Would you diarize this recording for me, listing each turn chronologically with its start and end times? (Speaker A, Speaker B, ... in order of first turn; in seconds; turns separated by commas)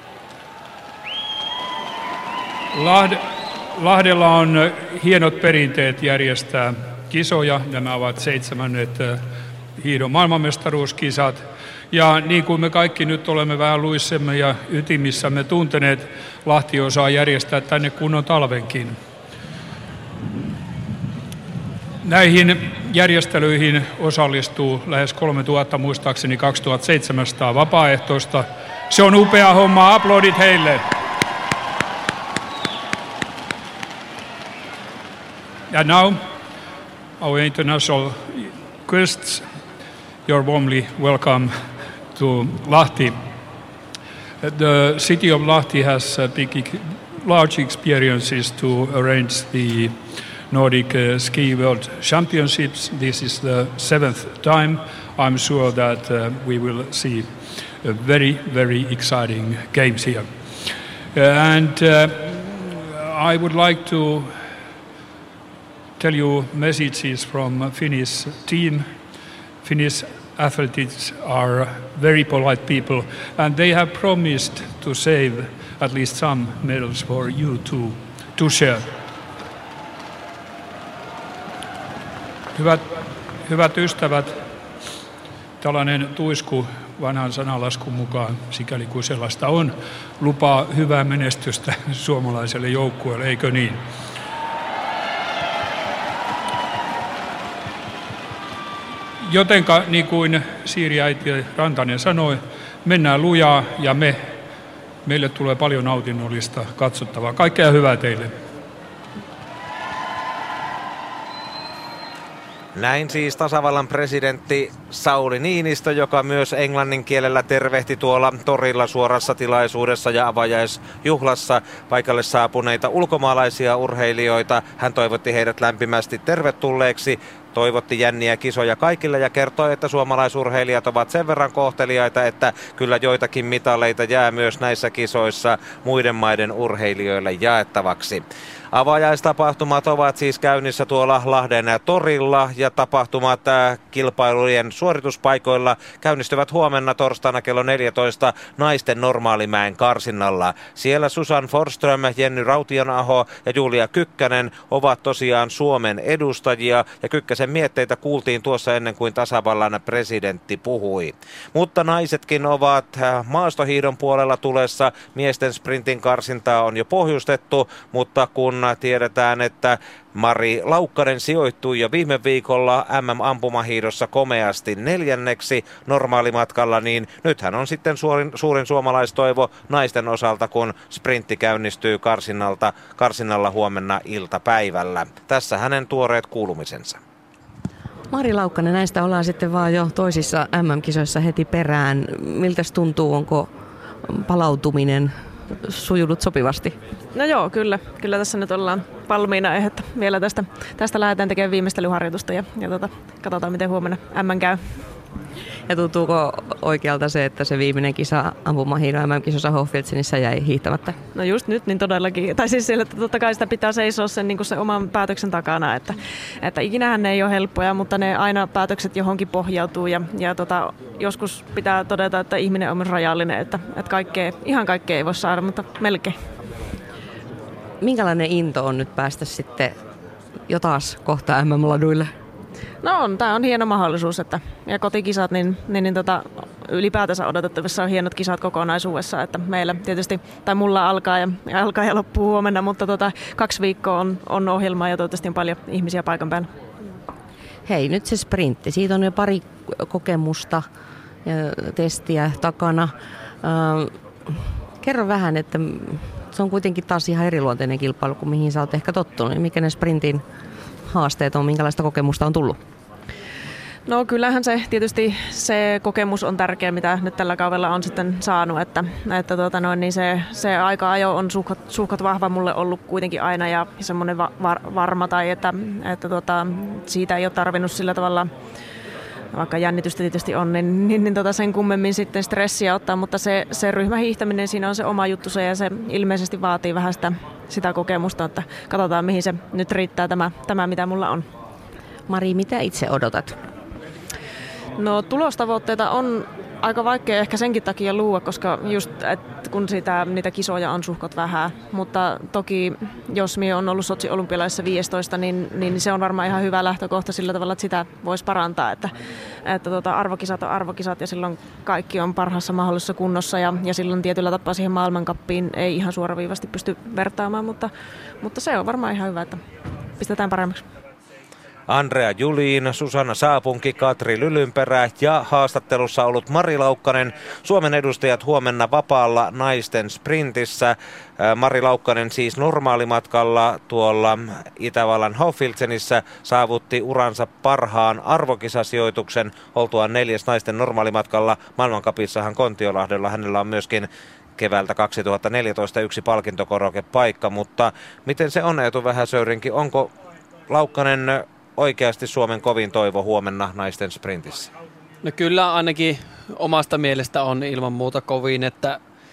Speaker A: 2.7-3.2, Speaker A: 3.7-9.2, Speaker A: 9.8-19.0, Speaker A: 22.0-30.9, Speaker A: 35.7-36.3, Speaker A: 37.2-39.4, Speaker A: 40.3-41.5, Speaker A: 42.1-43.2, Speaker A: 44.4-64.5, Speaker A: 66.0-69.0, Speaker A: 69.6-78.9, Speaker A: 82.5-82.9, Speaker A: 83.4-84.4, Speaker A: 85.6-93.8, Speaker A: 99.2-104.3, Speaker A: 105.0-108.3, Speaker B: 112.7-187.0, Speaker C: 188.1-193.5, Speaker C: 194.1-196.8, Speaker D: 197.1-204.6, Speaker C: 205.7-211.0, Speaker D: 211.1-226.1, Speaker C: 227.8-229.8, Speaker C: 230.5-232.1, Speaker D: 232.8-246.5, Speaker C: 247.7-250.7, Speaker C: 251.2-260.2, Speaker C: 260.9-262.6, Speaker D: 263.9-278.3, Speaker D: 279.3-291.3, Speaker C: 292.1-293.4, Speaker D: 294.8-308.9, Speaker D: 309.4-317.7, Speaker D: 318.2-319.4, Speaker D: 320.0-320.6, Speaker B: 321.7-349.9, Speaker B: 350.5-354.5, Speaker E: 355.0-358.8